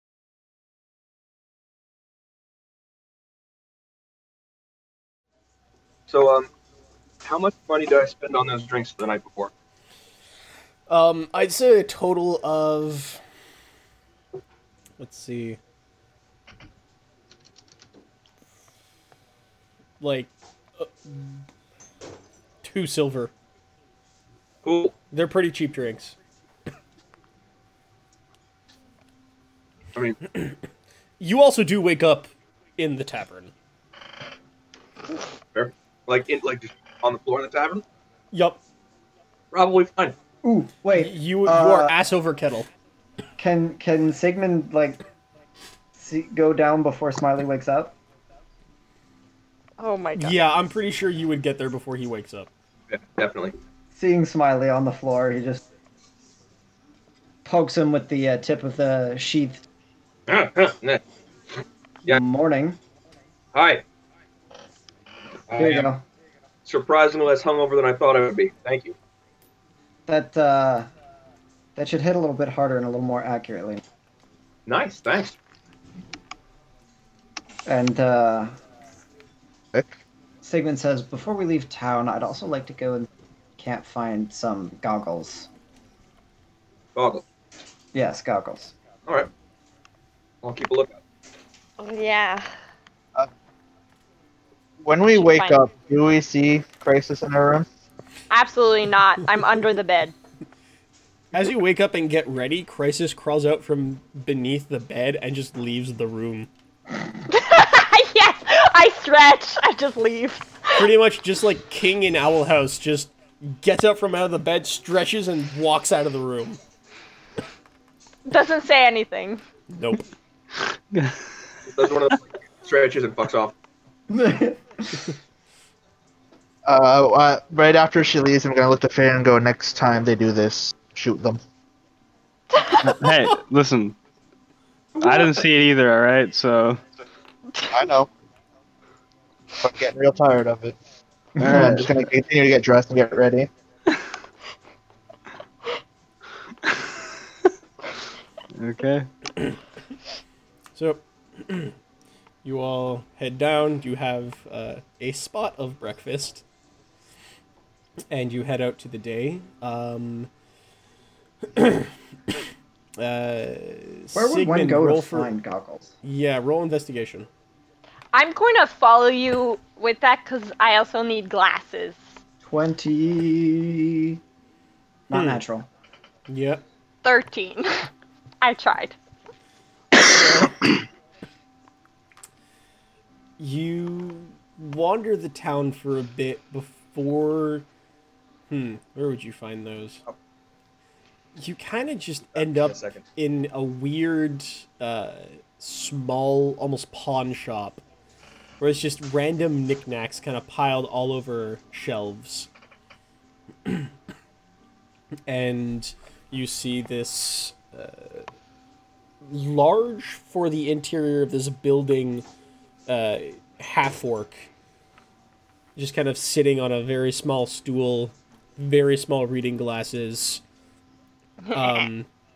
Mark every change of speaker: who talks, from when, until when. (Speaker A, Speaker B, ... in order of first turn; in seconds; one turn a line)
Speaker A: 6.1-6.5
Speaker A: 7.2-9.5
Speaker B: 10.9-13.2
Speaker B: 15.0-15.6
Speaker B: 20.0-21.4
Speaker B: 22.6-23.3
Speaker A: 24.6-24.9
Speaker B: 25.1-26.1
Speaker B: 30.3-30.6
Speaker B: 31.2-33.5
Speaker A: 35.5-37.8
Speaker B: 38.3-38.6
Speaker A: 39.5-40.2
Speaker C: 40.4-41.9
Speaker B: 40.9-42.7
Speaker C: 43.4-45.0
Speaker C: 45.9-47.9
Speaker D: 49.8-50.4
Speaker B: 50.1-52.5
Speaker A: 52.9-53.5
Speaker C: 53.9-55.6
Speaker C: 57.4-59.6
Speaker A: 60.3-61.0
Speaker C: 62.0-62.8
Speaker A: 63.5-63.8
Speaker A: 65.5-65.9
Speaker C: 65.5-66.0
Speaker A: 66.6-68.9
Speaker C: 70.1-70.9
Speaker C: 71.8-73.8
Speaker A: 74.7-75.4
Speaker C: 77.7-78.6
Speaker C: 80.4-85.5
Speaker A: 86.9-87.2
Speaker C: 87.9-88.7
Speaker A: 90.4-91.0
Speaker D: 91.8-92.6
Speaker E: 94.8-97.7
Speaker D: 95.1-95.6
Speaker D: 98.3-100.1
Speaker B: 101.3-106.5
Speaker D: 107.3-110.8
Speaker B: 110.7-116.6
Speaker D: 118.3-119.4
Speaker B: 119.7-120.0
Speaker F: 120.7-121.2
Speaker A: 121.7-123.5
Speaker C: 124.1-125.1
Speaker E: 126.7-131.4
Speaker D: 132.6-132.9
Speaker F: 132.8-134.0
Speaker F: 135.0-136.8
Speaker E: 137.7-138.1
Speaker E: 139.6-140.8
Speaker C: 141.4-141.8
Speaker F: 141.4-142.0
Speaker E: 141.4-143.5
Speaker F: 146.6-146.9
Speaker F: 148.5-149.1
Speaker B: 150.7-151.8
Speaker B: 152.4-156.4
Speaker B: 158.1-160.3
Speaker B: 161.5-162.4
Speaker B: 163.0-165.3
Speaker C: 164.1-165.9
Speaker B: 166.0-167.3
Speaker D: 168.1-172.1
Speaker C: 172.4-174.2
Speaker C: 175.1-175.7
Speaker B: 175.1-175.4
Speaker B: 176.3-176.6
Speaker D: 177.0-177.9
Speaker D: 178.4-178.9
Speaker B: 183.4-187.7
Speaker B: 188.5-190.0
Speaker B: 191.3-197.8
Speaker A: 192.3-193.0
Speaker B: 198.6-202.5
Speaker B: 203.7-203.9
Speaker B: 205.3-208.3
Speaker B: 209.2-212.2
Speaker B: 212.9-214.5
Speaker B: 215.8-220.4
Speaker D: 221.4-221.9
Speaker B: 221.5-222.1